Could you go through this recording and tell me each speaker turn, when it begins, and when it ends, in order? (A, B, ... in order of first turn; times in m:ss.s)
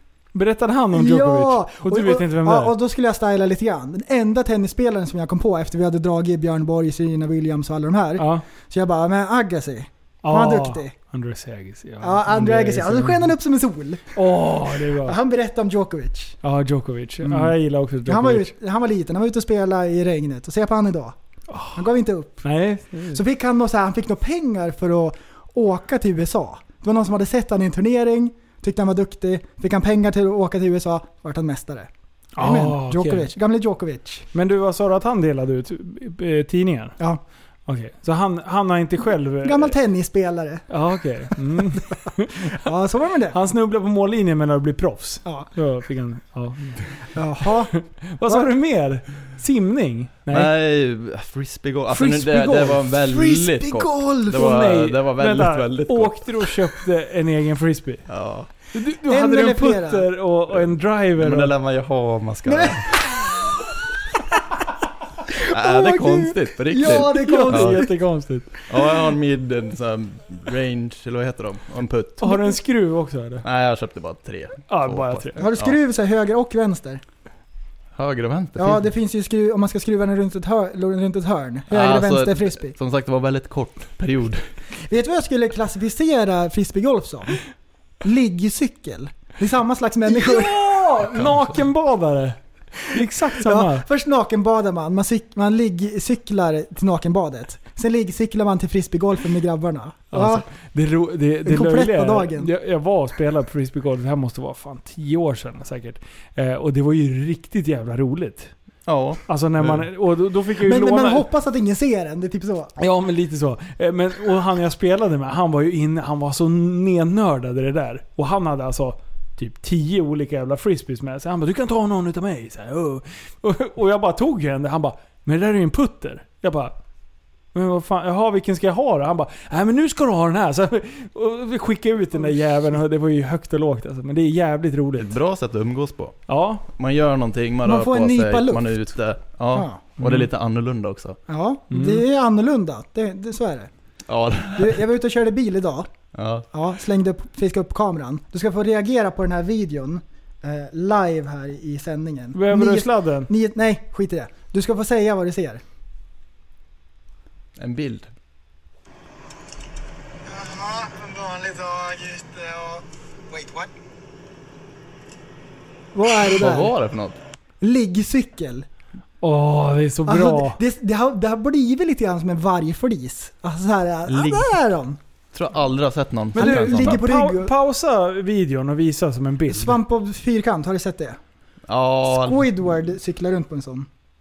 0:00.3-0:02.8 A
0:00.9-0:10.9 B
0:08.2-0:08.4 A
0:10.2-0:13.3 A
0:12.0-0:16.4 B
0:14.2-0:15.2 A
0:16.4-0:18.5 A
0:17.2-0:17.5 B
0:18.0-0:21.2 B
0:21.5-0:21.9 A
0:21.8-0:22.5 B
0:22.4-0:23.2 A
0:23.1-0:34.3 B
0:32.4-0:33.3 A
0:34.3-0:37.0 A
0:37.7-0:39.8 A
0:39.4-0:40.7 B
0:40.7-0:42.7 A
0:42.4-0:43.4 B
0:43.3-0:46.9 A
0:47.1-0:47.7 B
0:47.4-0:50.5 A
0:50.3-0:56.5 C
0:51.9-0:52.8 A
0:52.9-0:54.6 B
0:54.3-0:58.0 A
0:58.1-0:58.5 C
0:58.7-1:01.5 A
0:59.1-1:00.1 B
1:01.2-1:03.6 C
1:02.5-1:03.5 B
1:05.3-1:08.0 B
1:05.5-1:07.8 C
1:06.8-1:08.5 A
1:08.7-1:12.5 C
1:12.2-1:13.4 A
1:13.4-1:15.8 C
1:14.7-1:15.4 A
1:15.4-1:17.0 B
1:18.0-1:18.9 C
1:18.6-1:22.7 B
1:21.7-1:24.4 C
1:24.8-1:27.4 B
1:28.0-1:31.0 B
1:30.1-1:33.9 A
1:33.3-1:40.5 B
1:40.1-1:48.5 A
1:41.4-1:42.5 B
1:48.9-1:49.9 C
1:49.3-1:51.2 A
1:50.6-1:52.7 B
1:52.8-2:06.8 A
2:07.5-2:15.1 A
2:15.0-2:21.2 C
2:16.3-2:16.6 A
2:17.6-2:18.8 B
2:19.5-2:19.9 B
2:20.0-2:20.3 A
2:21.3-2:23.7 B
2:21.7-2:22.0 A
2:24.1-2:24.8 C
2:24.6-2:25.9 B
2:26.1-2:26.5 C
2:26.5-2:35.6 B
2:32.3-2:33.3 A
2:37.6-2:38.1 C
2:40.3-2:42.8 B
2:43.3-2:43.7 B
2:45.9-2:46.7 B
2:46.3-2:47.2 C
2:47.6-2:48.7 B
2:49.2-2:50.6 A
2:50.1-2:55.0 B
2:54.1-2:54.5 C
2:55.3-2:57.0 C
2:56.4-2:57.5 B
2:56.4-2:59.8 A
2:59.5-3:01.2 B
3:01.7-3:02.5 C
3:02.1-3:03.9 B